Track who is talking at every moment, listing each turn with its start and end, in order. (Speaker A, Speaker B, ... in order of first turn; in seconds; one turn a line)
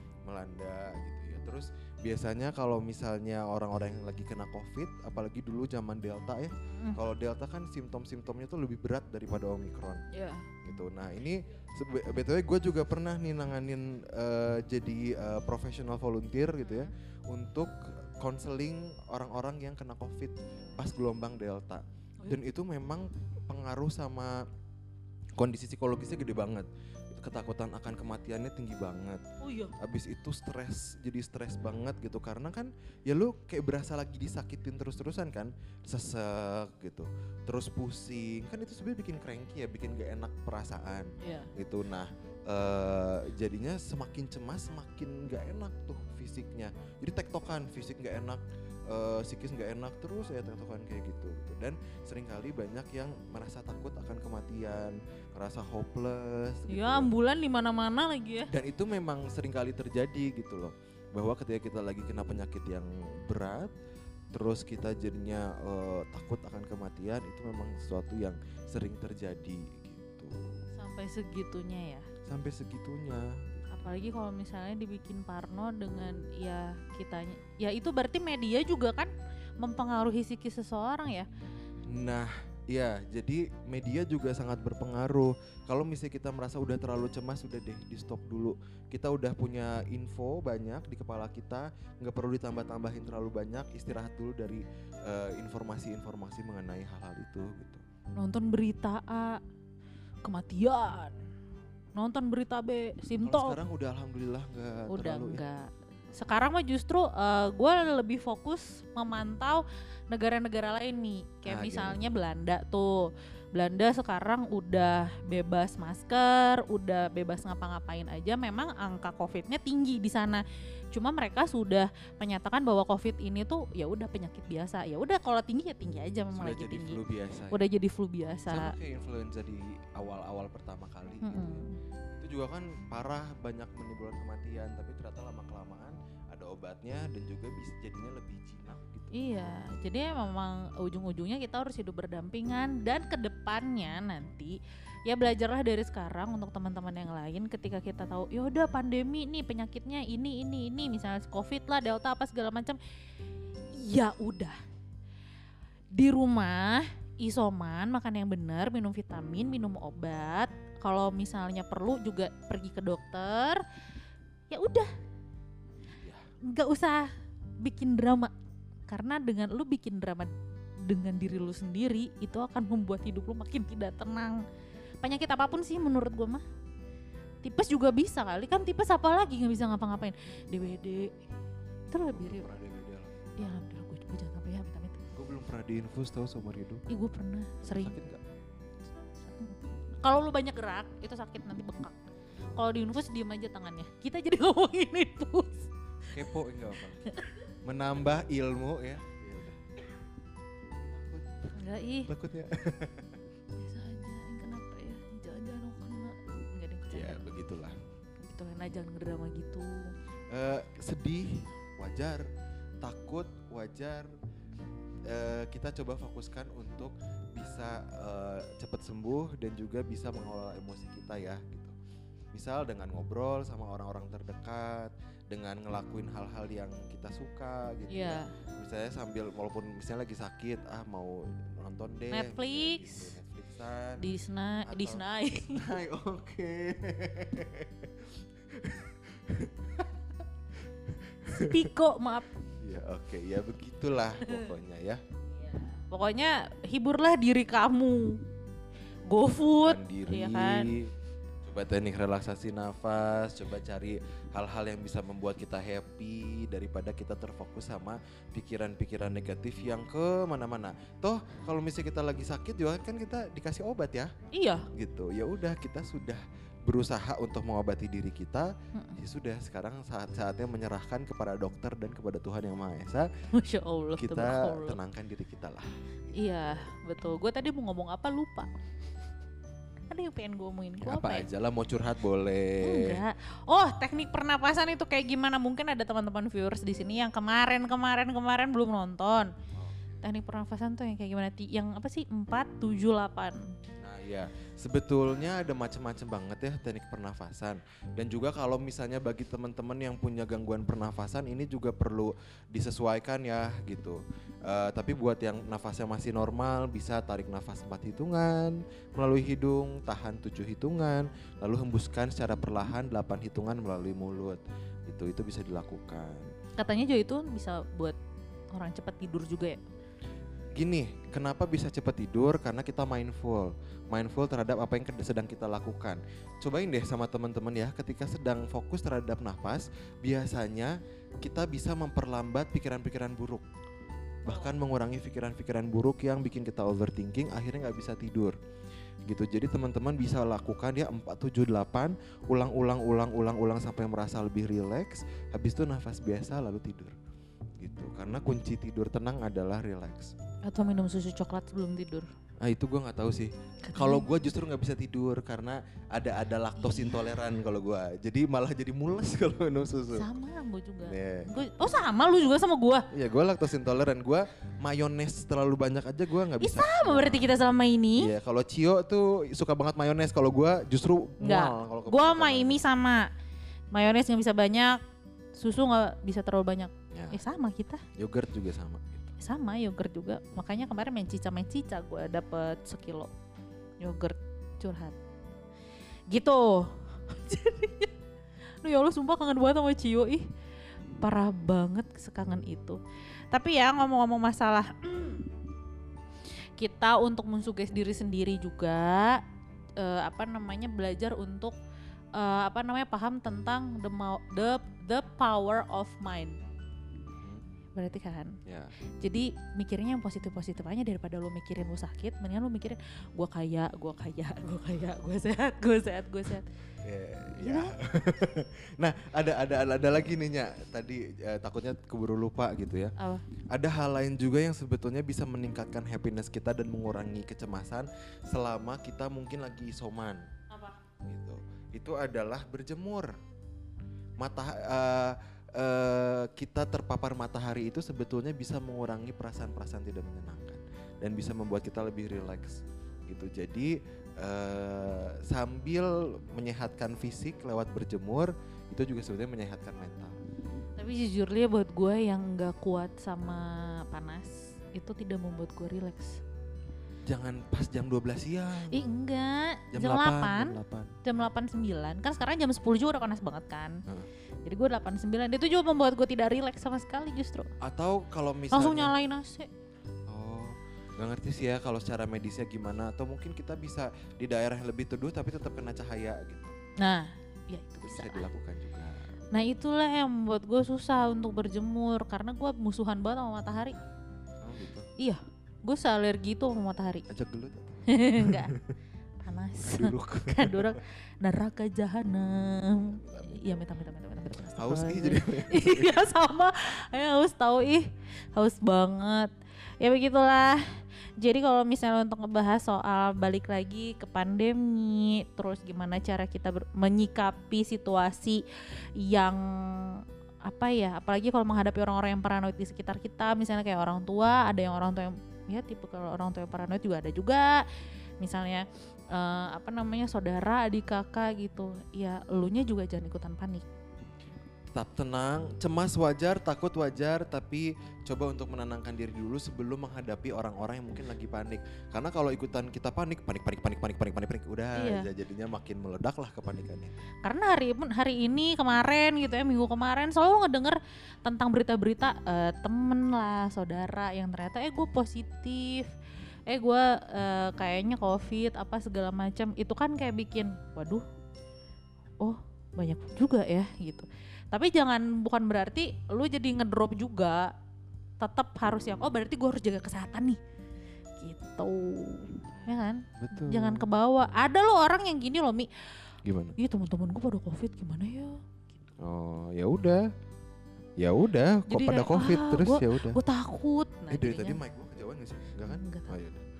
Speaker A: 0.3-10.0
Speaker B: 6.7-7.0
Speaker B: 10.1-10.5
Speaker A: 10.6-24.4
Speaker B: 16.6-16.9
Speaker A: 25.4-29.2
Speaker B: 29.4-29.7
Speaker A: 29.8-57.1
Speaker B: 41.2-41.5
Speaker B: 56.7-58.5
Speaker A: 58.5-63.7
Speaker A: 64.3-70.6
Speaker B: 70.7-72.1
Speaker A: 72.3-73.7
Speaker B: 73.7-81.3
Speaker A: 81.9-97.8
Speaker B: 98.2-99.4
Speaker B: 100.2-101.2
Speaker B: 102.0-103.6
Speaker A: 103.2-105.4
Speaker B: 104.9-127.0
Speaker A: 111.5-112.0
Speaker A: 126.3-127.7
Speaker B: 127.5-128.7
Speaker A: 128.4-131.6
Speaker B: 131.2-131.8
Speaker A: 132.2-139.6
Speaker B: 139.1-152.8
Speaker B: 153.7-154.6
Speaker B: 155.9-163.6
Speaker B: 164.5-164.9
Speaker A: 166.0-166.2
Speaker B: 166.4-168.3
Speaker B: 168.9-170.3
Speaker B: 170.8-174.4
Speaker B: 175.0-176.4
Speaker B: 177.4-181.1
Speaker B: 181.9-182.5
Speaker A: 182.1-183.6
Speaker B: 183.4-185.0
Speaker A: 185.1-186.8
Speaker B: 186.9-188.0
Speaker A: 187.6-188.2
Speaker B: 189.0-192.0
Speaker A: 192.3-192.6
Speaker B: 192.6-195.7
Speaker A: 196.1-199.7
Speaker B: 197.1-197.4
Speaker A: 200.8-201.3
Speaker B: 201.6-202.1
Speaker A: 202.1-203.1
Speaker B: 203.6-207.3
Speaker A: 206.9-207.8
Speaker B: 208.2-209.9
Speaker A: 210.3-212.3
Speaker A: 212.8-214.1
Speaker A: 215.1-221.8
Speaker A: 222.3-234.1
Speaker B: 227.9-228.3
Speaker B: 232.1-233.1
Speaker B: 234.0-235.7
Speaker A: 234.7-240.0
Speaker A: 240.9-241.7
Speaker B: 241.3-242.3
Speaker A: 242.6-245.0
Speaker B: 245.7-248.2
Speaker B: 249.1-250.7
Speaker A: 249.6-250.9
Speaker A: 251.4-264.1
Speaker B: 264.3-264.7
Speaker A: 264.7-273.1
Speaker B: 268.7-269.0
Speaker B: 273.3-274.8
Speaker A: 274.0-275.7
Speaker B: 276.1-278.5
Speaker A: 276.4-276.6
Speaker B: 279.9-281.3
Speaker A: 280.8-283.0
Speaker B: 282.6-289.3
Speaker A: 289.6-290.0
Speaker B: 290.0-293.5
Speaker A: 293.8-316.3
Speaker B: 316.6-318.0
Speaker B: 318.5-319.6
Speaker A: 320.6-333.4
Speaker A: 334.2-338.4
Speaker B: 334.3-334.6
Speaker A: 339.1-346.9
Speaker A: 347.6-350.1
Speaker B: 350.4-352.1
Speaker A: 352.4-360.1
Speaker B: 353.7-354.1
Speaker B: 356.6-357.1
Speaker B: 359.9-362.9
Speaker A: 360.8-361.4
Speaker A: 362.9-367.3
Speaker B: 366.4-368.1
Speaker A: 368.0-372.6
Speaker B: 371.2-373.1
Speaker B: 373.7-374.8
Speaker B: 375.4-377.8
Speaker A: 376.9-377.2
Speaker A: 377.9-379.1
Speaker B: 379.2-383.1
Speaker B: 383.8-385.0
Speaker B: 386.1-387.9
Speaker B: 388.6-390.3
Speaker B: 391.0-392.8
Speaker B: 393.3-395.3
Speaker B: 396.6-399.2
Speaker B: 399.8-401.5
Speaker B: 402.1-406.4
Speaker B: 407.8-408.4
Speaker A: 408.4-408.7
Speaker B: 409.0-416.5
Speaker A: 416.8-422.9
Speaker B: 417.4-417.7
Speaker B: 423.0-423.2
Speaker A: 423.5-430.3
Speaker B: 430.5-430.8
Speaker A: 431.0-433.1
Speaker A: 434.2-450.2
Speaker B: 450.8-456.2
Speaker A: 457.1-458.8
Speaker B: 458.7-463.8
Speaker A: 459.7-461.0
Speaker B: 464.4-467.5
Speaker A: 467.6-468.9
Speaker B: 468.5-469.5
Speaker A: 470.1-476.6
Speaker B: 476.8-478.3
Speaker A: 477.8-479.1
Speaker B: 479.3-483.8
Speaker A: 484.4-484.9
Speaker B: 485.0-487.1
Speaker A: 487.1-488.7
Speaker B: 487.9-488.5
Speaker B: 489.2-517.6
Speaker A: 489.6-490.8
Speaker A: 492.9-493.6
Speaker A: 494.5-496.1
Speaker B: 518.2-523.6
Speaker A: 524.7-537.0
Speaker B: 534.8-535.1
Speaker B: 537.2-545.9
Speaker B: 546.5-551.0
Speaker B: 552.2-557.5
Speaker B: 558.2-560.4
Speaker B: 561.2-565.7
Speaker A: 562.5-563.9
Speaker A: 566.2-566.5
Speaker B: 566.6-568.7
Speaker A: 569.0-570.1
Speaker A: 571.0-573.2
Speaker B: 571.7-574.6
Speaker A: 574.1-576.5
Speaker B: 575.6-576.2